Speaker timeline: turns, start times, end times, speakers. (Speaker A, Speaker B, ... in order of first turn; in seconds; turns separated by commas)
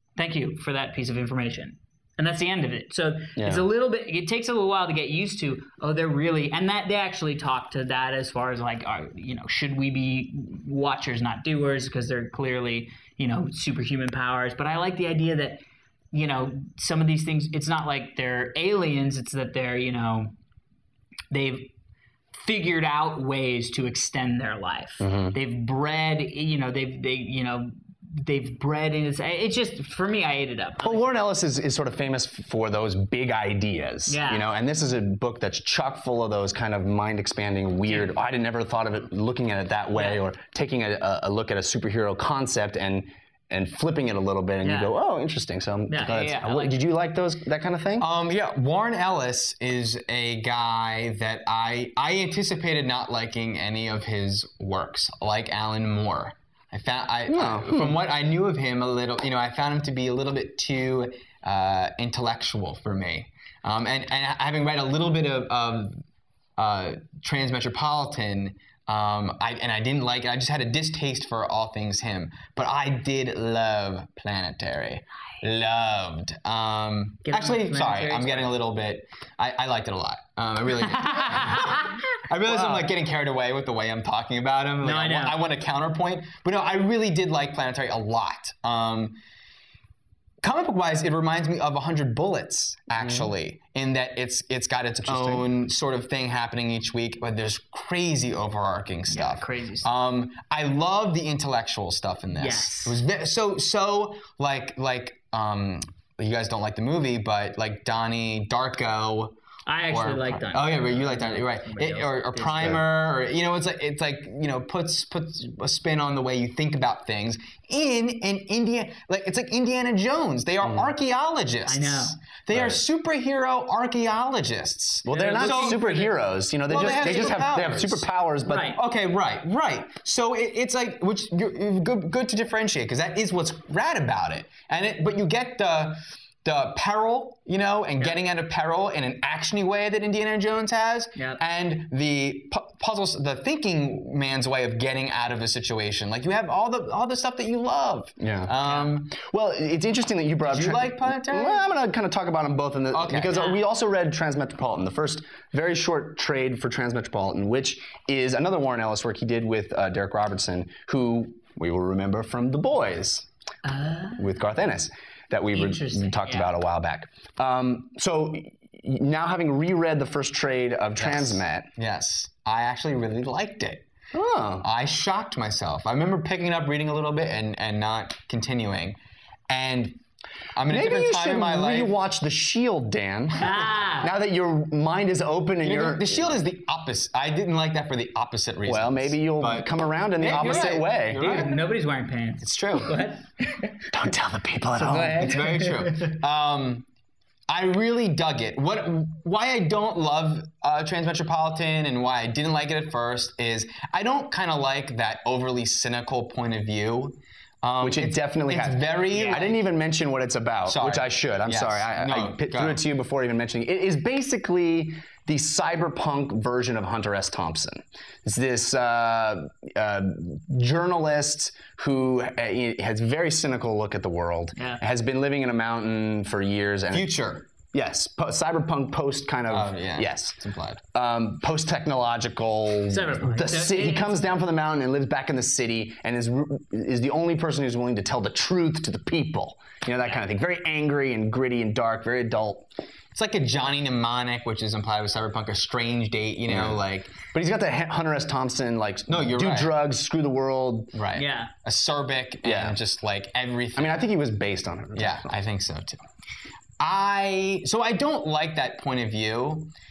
Speaker A: 0.2-20.3, Speaker B: 3.4-3.6, Speaker A: 21.3-21.7, Speaker A: 22.3-31.1, Speaker B: 25.0-25.4, Speaker B: 30.8-48.1, Speaker A: 34.1-34.5, Speaker A: 44.6-44.9, Speaker A: 45.9-46.8, Speaker C: 48.0-66.0, Speaker B: 57.3-57.9, Speaker C: 66.6-89.2, Speaker A: 77.2-78.5, Speaker A: 80.8-82.0, Speaker B: 82.4-82.9, Speaker A: 84.8-85.4, Speaker C: 90.4-109.3, Speaker B: 95.0-95.5, Speaker A: 99.1-99.9, Speaker A: 102.4-103.0, Speaker A: 109.7-112.8, Speaker C: 109.9-126.1, Speaker B: 120.6-120.9, Speaker A: 121.7-122.2, Speaker B: 122.5-122.8, Speaker B: 125.0-128.7, Speaker A: 125.1-126.1, Speaker C: 126.7-128.0, Speaker A: 126.8-127.3, Speaker A: 128.4-128.8, Speaker C: 128.7-149.2, Speaker B: 148.2-148.5, Speaker B: 149.1-163.2, Speaker C: 150.4-151.7, Speaker C: 152.9-153.5, Speaker A: 153.3-153.6, Speaker A: 163.6-164.3, Speaker B: 164.2-171.7, Speaker A: 165.5-166.5, Speaker C: 171.0-173.8, Speaker B: 174.1-174.7, Speaker C: 174.6-179.0, Speaker C: 179.5-180.0, Speaker C: 180.5-182.0, Speaker B: 180.7-186.4, Speaker A: 183.4-184.1, Speaker C: 185.6-191.6, Speaker B: 188.7-191.4, Speaker A: 190.4-193.8, Speaker C: 192.4-192.9, Speaker B: 193.9-195.6, Speaker A: 194.7-196.2, Speaker C: 195.1-196.8, Speaker C: 197.5-209.6, Speaker B: 207.8-230.4, Speaker A: 209.1-209.5, Speaker C: 210.7-212.8, Speaker A: 224.6-224.8, Speaker C: 226.9-227.4, Speaker C: 229.5-230.8, Speaker B: 230.9-242.7, Speaker A: 232.9-234.3, Speaker C: 243.1-247.2, Speaker B: 246.5-246.8, Speaker B: 247.3-251.0, Speaker C: 249.1-249.7, Speaker C: 250.9-254.0, Speaker A: 251.1-251.5, Speaker B: 252.4-252.8, Speaker B: 253.7-255.3, Speaker C: 254.9-256.0, Speaker C: 256.8-259.7